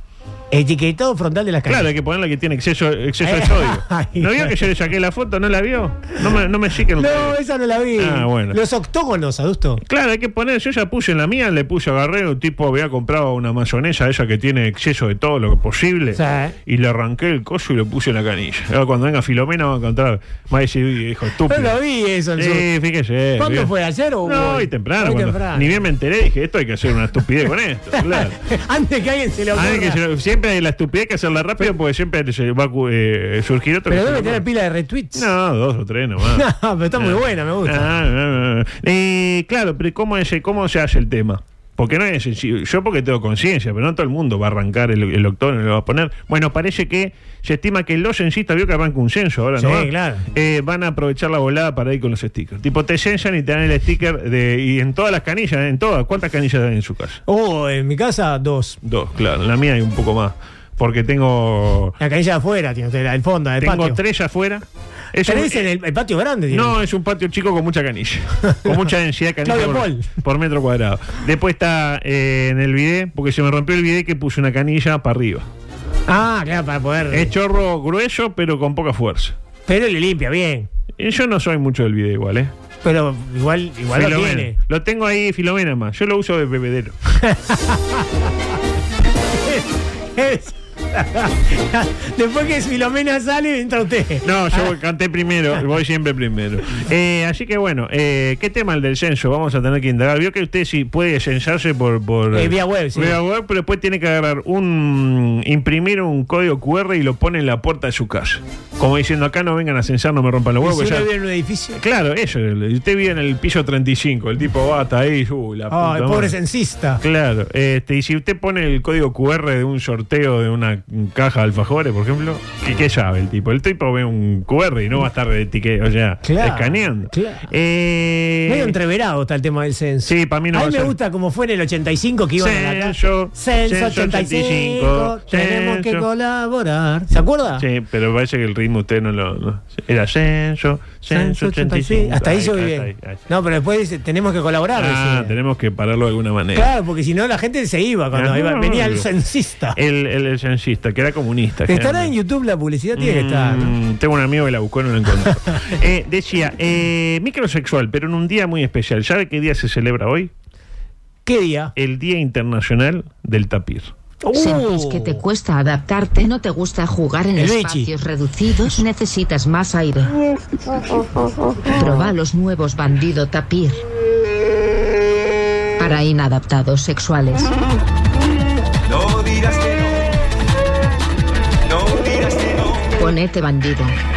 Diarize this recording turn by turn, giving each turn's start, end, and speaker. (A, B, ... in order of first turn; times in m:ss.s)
0:00.5-0:01.9 A
0:01.7-0:07.4 B
0:03.2-0:04.7 A
0:07.0-0:09.8 A
0:08.0-0:08.6 B
0:09.8-0:21.8 B
0:16.2-0:16.6 A
0:21.5-0:22.7 A
0:22.4-0:23.7 B
0:23.4-0:25.8 A
0:24.2-0:28.4 B
0:28.0-0:30.0 A
0:29.5-0:34.4 B
0:33.9-0:35.3 A
0:35.1-0:57.2 B
0:36.3-0:37.9 A
0:49.6-0:50.2 A
0:57.3-0:58.8 A
0:58.8-1:02.0 B
1:02.0-1:04.0 A
1:03.6-1:05.7 B
1:05.3-1:06.8 A
1:06.5-1:15.5 B
1:08.5-1:08.9 A
1:09.4-1:10.1 A
1:16.1-1:17.3 A
1:17.1-1:19.4 B
1:19.7-1:20.7 A
1:21.0-1:22.5 B
1:22.8-1:24.6 A
1:23.9-1:27.0 B
1:27.2-1:28.3 A
1:29.4-1:34.7 A
1:34.2-1:51.1 B
1:42.3-1:43.2 A
1:50.6-1:51.8 A
1:51.8-1:56.4 B
1:55.7-1:57.0 A
1:57.0-2:08.8 B
2:06.2-2:07.5 A
2:08.5-2:17.6 A
2:10.0-2:10.9 B
2:12.4-2:16.1 B
2:17.6-2:23.3 B
2:21.1-2:25.3 A
2:24.8-2:26.7 B
2:26.6-2:29.8 A
2:28.1-2:29.1 B
2:29.8-2:32.1 B
2:31.7-2:33.7 A
2:33.0-2:40.3 B
2:41.3-2:41.7 A
2:41.8-2:43.9 B
2:44.2-2:45.2 A
2:44.3-2:50.1 C
2:47.4-2:47.9 A
2:51.7-2:53.8 C
2:55.8-2:57.5 C
2:58.9-2:59.8 D
3:01.7-3:02.7 D
3:02.9-3:04.0 C